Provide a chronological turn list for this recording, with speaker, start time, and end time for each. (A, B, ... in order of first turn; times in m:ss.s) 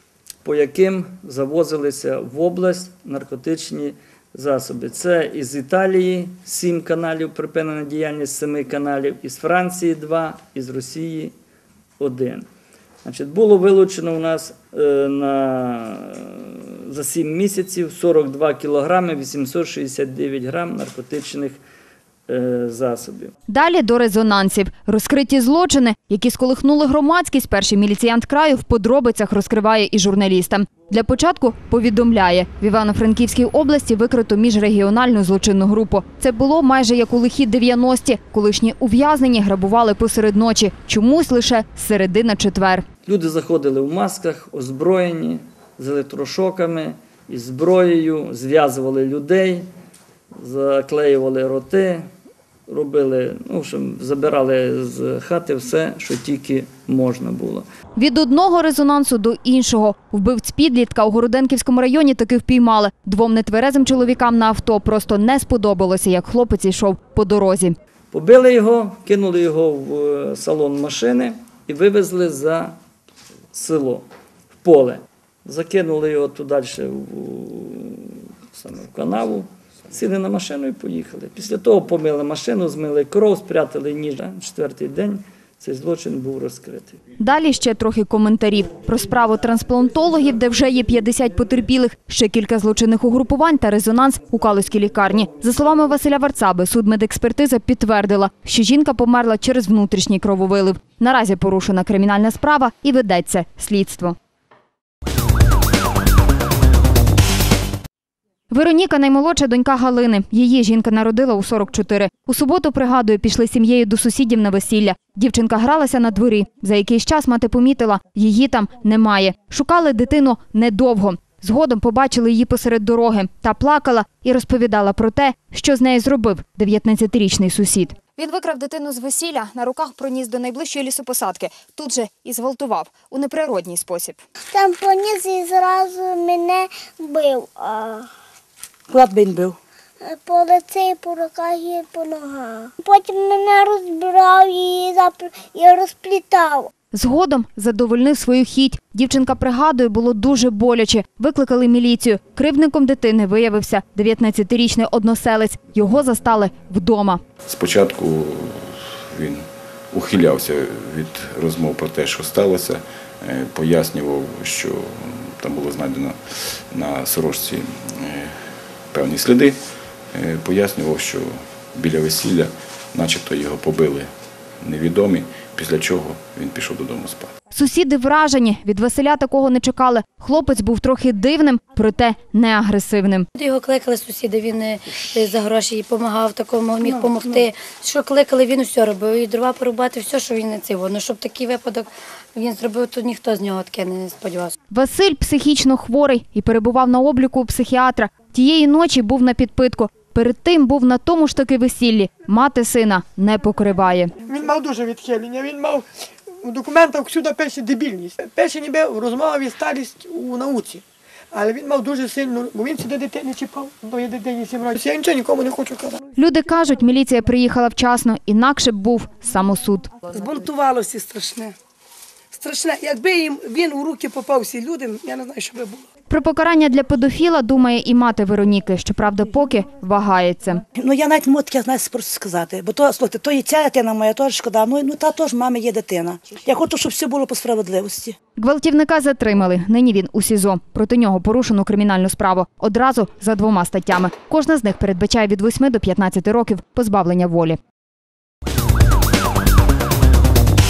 0:00.4-0:11.3 A
0:12.0-0:12.4 A
0:13.0-0:21.6 A
0:22.3-0:23.3 A
0:23.5-0:42.8 B
0:43.1-0:49.7 A
0:50.4-0:52.0 A
0:52.7-0:57.6 A
0:58.0-1:07.8 B
1:08.1-1:12.8 A
1:13.5-1:14.1 A
1:14.6-1:27.0 A
1:27.2-1:44.2 B
1:48.5-2:14.2 B
2:14.5-2:18.1 C
2:18.9-2:19.6 D
2:20.0-2:26.7 C
2:26.9-2:37.2 B
2:37.5-2:48.3 E
2:48.9-2:49.6 E
2:50.1-2:54.1 E
2:54.6-2:57.3 E
2:57.5-3:03.3 B
3:03.4-3:14.6 F
3:14.7-3:24.1 B
3:24.3-3:25.8 G
3:26.4-3:30.8 G
3:31.3-3:36.0 G
3:36.2-3:40.0 B
3:40.1-3:41.6 H
3:42.3-3:45.8 H
3:46.1-3:50.6 B
3:50.8-3:58.2 D
3:58.4-4:07.6 B